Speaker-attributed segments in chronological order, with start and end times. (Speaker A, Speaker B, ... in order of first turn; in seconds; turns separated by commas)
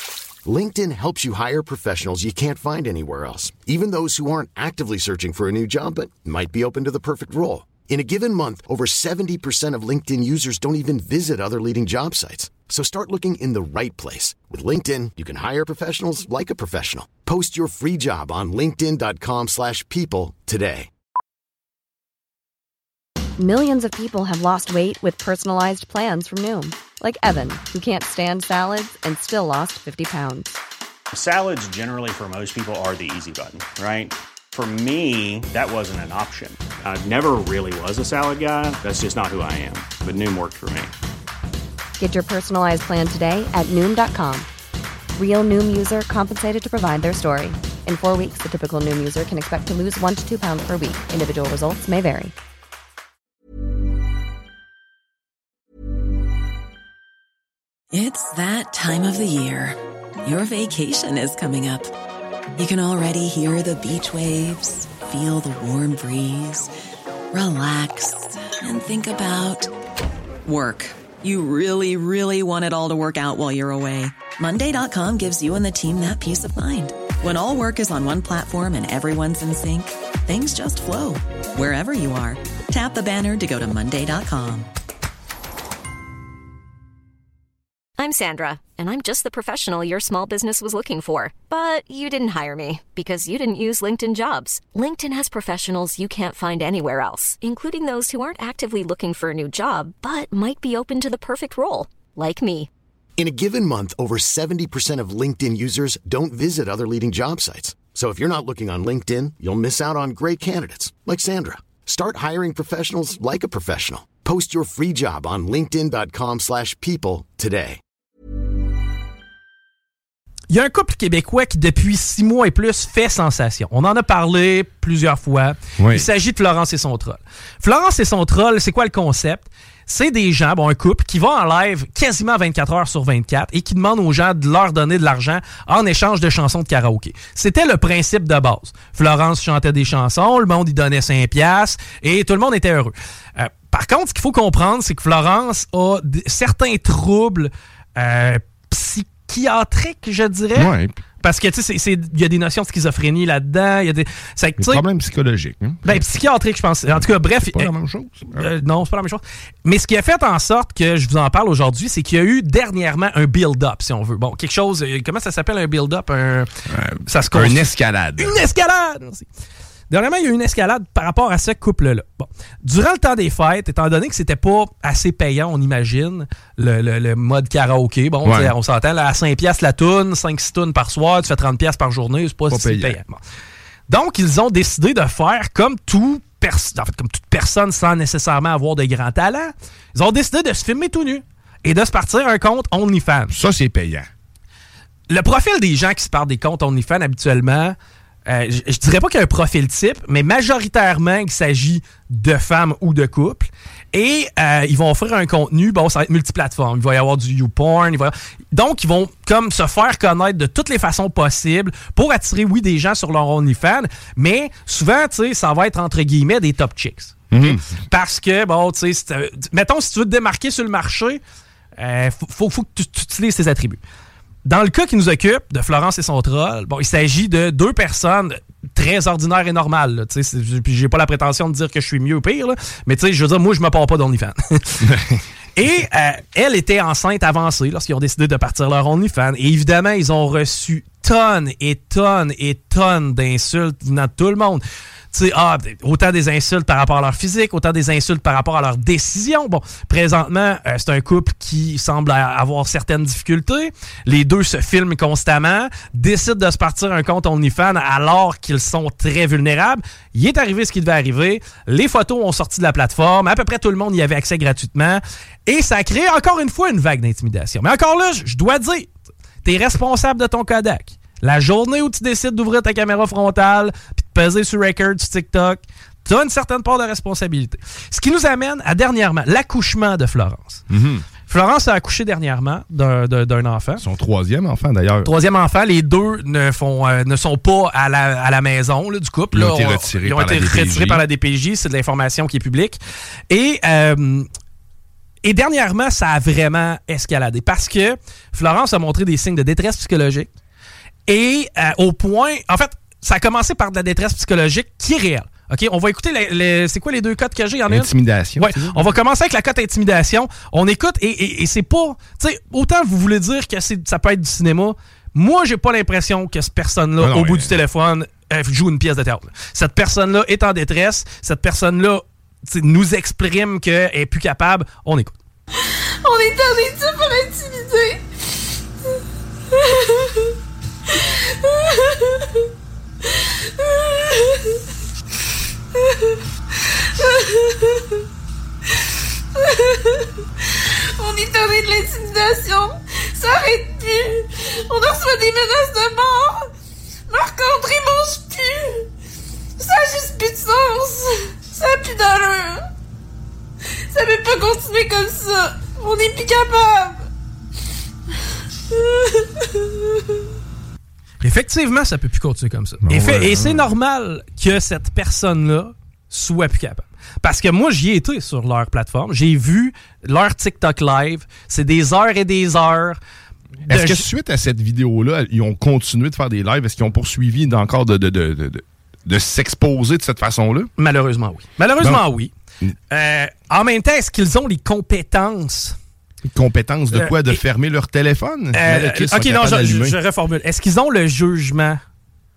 Speaker A: 0.5-20.9, Speaker B: 23.4-30.5, Speaker C: 31.1-40.9, Speaker B: 42.0-44.5, Speaker B: 45.2-52.3, Speaker D: 57.9-61.9, Speaker D: 62.6-66.7, Speaker D: 67.3-69.7, Speaker D: 70.5-84.7, Speaker E: 88.0-102.7, Speaker A: 103.2-117.8, Speaker F: 120.5-154.8, Speaker G: 125.8-126.1, Speaker G: 150.6-151.0, Speaker G: 154.6-156.1, Speaker F: 155.8-157.7, Speaker G: 157.0-158.5, Speaker F: 158.3-166.5, Speaker G: 166.7-168.4, Speaker F: 167.1-169.3, Speaker F: 169.9-183.2, Speaker G: 178.2-178.5, Speaker G: 182.5-183.0, Speaker F: 183.9-193.3, Speaker G: 193.3-194.1, Speaker F: 195.1-197.8, Speaker F: 198.3-221.2, Speaker G: 217.3-217.7, Speaker F: 221.8-223.8, Speaker F: 224.4-234.9, Speaker F: 235.6-268.9, Speaker F: 269.4-280.6, Speaker G: 280.7-281.1, Speaker F: 281.3-283.8, Speaker G: 283.8-285.1, Speaker F: 285.0-292.8, Speaker G: 289.3-291.0, Speaker F: 293.3-294.3, Speaker F: 295.2-300.3, Speaker F: 301.1-325.2, Speaker G: 307.7-308.9, Speaker G: 317.0-317.6, Speaker H: 326.0-328.0, Speaker H: 333.8-334.1, Speaker H: 337.1-337.6, Speaker H: 339.4-339.9, Speaker H: 341.0-346.5, Speaker H: 347.1-348.9, Speaker H: 349.6-352.6, Speaker H: 353.9-357.0, Speaker F: 361.2-373.0, Speaker G: 362.8-363.7, Speaker G: 373.7-380.7, Speaker F: 373.7-374.1, Speaker F: 380.8-382.3, Speaker G: 381.8-382.1, Speaker F: 382.9-385.7, Speaker G: 386.2-390.0, Speaker F: 386.9-387.4, Speaker F: 388.5-391.8